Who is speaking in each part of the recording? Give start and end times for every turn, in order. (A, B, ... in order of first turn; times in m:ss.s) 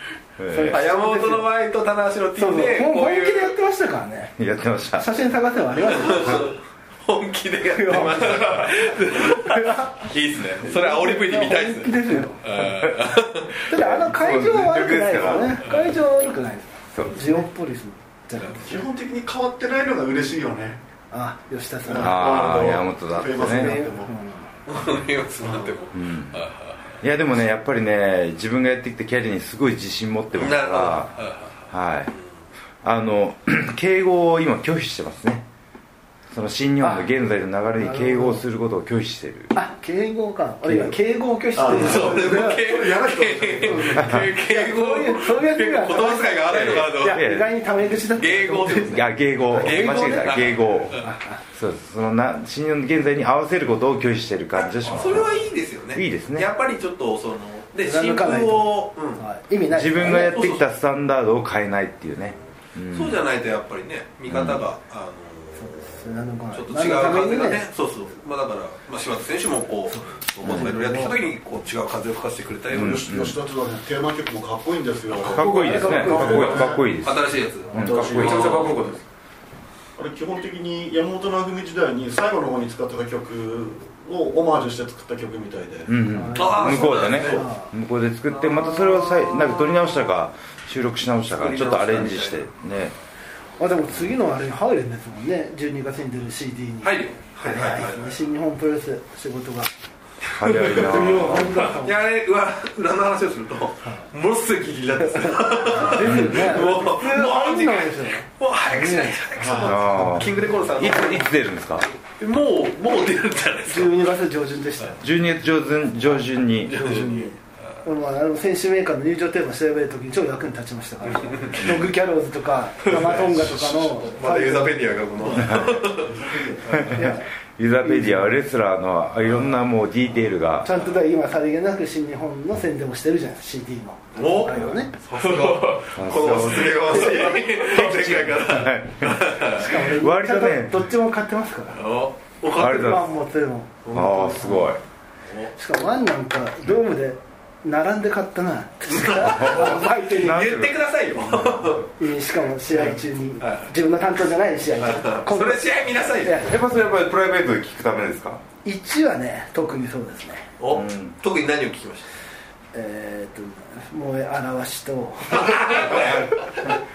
0:00.4-0:00.8 A
0:00.5-0:01.5 B
0:00.6-0:03.6 C
0:02.4-0:04.4 B
0:04.4-0:05.1 A
0:05.0-0:06.5 B
0:05.9-0:13.7 C
0:07.7-0:10.1 B
0:10.6-0:12.4 B
0:13.7-0:18.9 B
0:13.7-0:15.6 A
0:16.9-0:17.4 A
0:18.6-0:20.8 D
0:21.1-0:22.6 B
0:21.8-0:24.1 D
0:22.0-0:23.8 A
0:23.4-0:24.5 B
0:24.7-0:27.0 C
0:25.4-0:25.8 D
0:25.9-0:26.4 A
0:27.0-0:31.1 A
0:30.4-0:32.2 C
0:31.7-0:32.1 A
0:32.8-0:35.4 A
0:36.3-0:39.5 A
0:36.8-0:37.1 B
0:37.8-0:38.4 B
0:39.5-0:42.7 B
0:40.6-0:41.0 A
0:41.5-0:44.1 D
0:41.7-0:47.3 C
0:43.6-0:50.4 B
0:46.4-0:47.5 A
0:48.0-0:51.1 C
0:48.9-0:51.0 A
0:50.9-0:51.4 B
0:51.5-0:55.4 A
0:54.6-0:59.2 C
0:55.9-0:56.5 A
0:57.8-1:00.4 B
0:59.7-1:03.2 A
1:00.1-1:00.6 C
1:02.9-1:13.0 C
1:04.3-1:04.6 A
1:05.6-1:07.6 B
1:09.9-1:11.2 B
1:10.4-1:10.7 A
1:12.7-1:13.4 A
1:12.7-1:16.9 D
1:15.2-1:16.8 B
1:15.2-1:18.6 A
1:17.0-1:18.8 C
1:17.8-1:19.0 E
1:17.8-1:18.6 D
1:20.0-1:25.9 D
1:25.9-1:32.9 A
1:26.1-1:27.7 B
1:26.4-1:27.5 C
1:28.3-1:30.0 C
1:31.3-1:32.4 C
1:33.6-1:39.7 B
1:36.8-1:38.2 C
1:40.4-1:41.5 A
1:40.4-1:42.0 B
1:41.2-1:41.7 E
1:41.8-1:51.3 C
1:45.1-1:49.2 B
1:45.9-1:46.7 A
1:49.4-1:49.8 D
1:49.6-1:51.9 A
1:49.9-1:50.3 B
1:52.2-1:54.1 C
1:53.7-1:55.1 B
1:55.0-1:57.1 A
1:56.6-1:57.3 C
1:56.8-2:04.8 B
2:01.3-2:01.7 C
2:02.8-2:06.9 C
2:05.4-2:05.8 A
2:06.0-2:06.8 D
2:06.7-2:07.3 B
2:06.7-2:10.7 A
2:07.8-2:08.4 B
2:10.6-2:14.9 B
2:14.1-2:19.7 C
2:15.2-2:15.9 E
2:16.0-2:20.9 A
2:16.9-2:17.5 B
2:19.5-2:21.8 B
2:21.7-2:23.0 C
2:22.5-2:23.1 A
2:22.6-2:24.8 B
2:23.9-2:24.8 A
2:25.5-2:30.5 B
2:28.9-2:31.9 C
2:29.2-2:30.8 A
2:31.9-2:36.6 B
2:33.4-2:33.7 C
2:34.8-2:36.4 C
2:36.4-2:38.4 A
2:38.6-2:40.5 B
2:40.6-2:42.1 C
2:40.7-2:41.2 A
2:42.7-2:46.2 B
2:45.3-2:46.7 C
2:45.8-2:46.4 A